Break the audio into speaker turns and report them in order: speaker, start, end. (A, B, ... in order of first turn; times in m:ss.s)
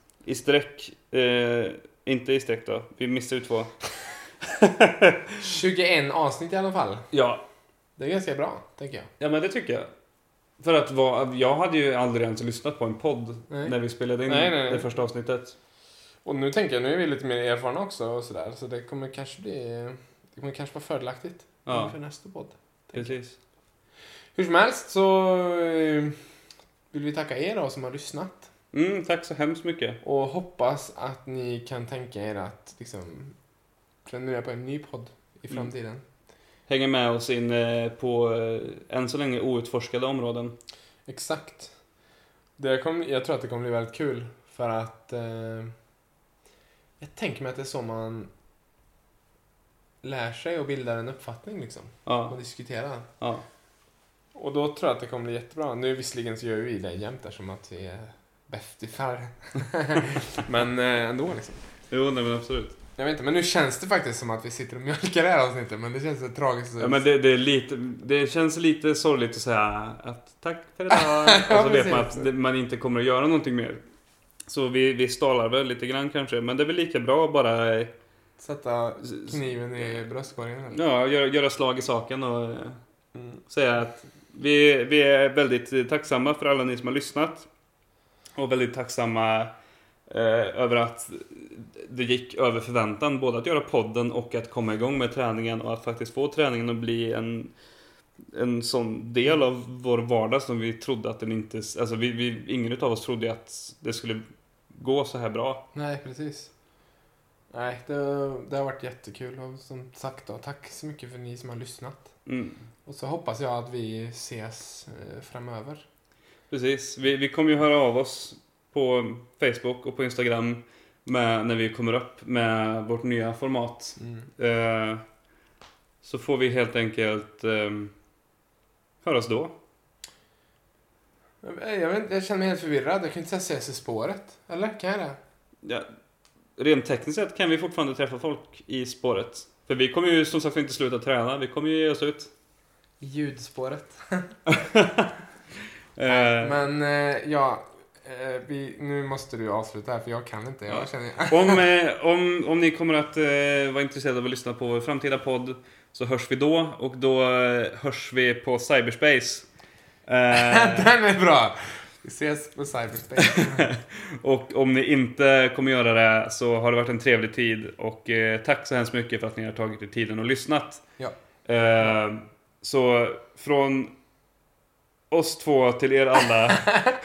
0:00.3-0:03.7 A
0:04.4-0:05.4 A
0:05.4-0:07.0 B
0:07.1-0:07.4 A
0:08.0-0:09.1 B
0:09.2-0:09.9 A
0:10.6-0:15.6 A
0:13.5-0:13.8 B
0:14.3-0:14.9 B
0:16.2-0:23.1 B
0:21.7-0:22.0 A
0:23.0-0:23.4 A
0:24.4-0:26.2 B
0:26.9-0:28.5 B
0:28.7-0:30.0 A
0:30.0-0:33.4 B
0:34.1-0:36.0 B
0:36.7-0:40.5 A
0:41.1-0:41.7 B
0:42.6-0:45.7 B
0:47.0-0:48.3 B
0:50.0-0:53.1 B
0:52.1-0:52.4 A
0:53.2-0:53.5 A
0:54.4-1:01.6 B
1:01.9-1:02.8 A
1:03.0-1:07.0 B
1:06.8-1:13.8 A
1:10.9-1:12.3 B
1:14.5-1:17.9 A
1:18.4-1:20.8 B
1:19.0-1:19.4 A
1:20.8-1:22.8 A
1:23.2-1:23.4 B
1:23.5-1:27.5 A
1:28.4-1:29.5 A
1:30.1-1:37.5 A
1:38.3-1:45.6 A
1:45.7-1:46.5 B
1:47.5-1:52.1 B
1:52.3-1:52.6 A
1:52.9-1:55.8 B
1:56.5-2:05.0 A
2:04.0-2:04.3 B
2:06.0-2:07.9 A
2:09.0-2:09.5 A
2:11.4-2:15.2 B
2:16.6-2:22.3 A
2:23.0-2:24.3 B
2:24.5-2:25.1 A
2:26.0-2:26.6 A
2:26.1-2:31.6 B
2:30.7-2:39.5 A
2:40.1-2:40.9 A
2:40.3-2:43.7 B
2:43.4-2:50.8 A
2:51.5-2:53.9 A
2:55.1-2:56.7 A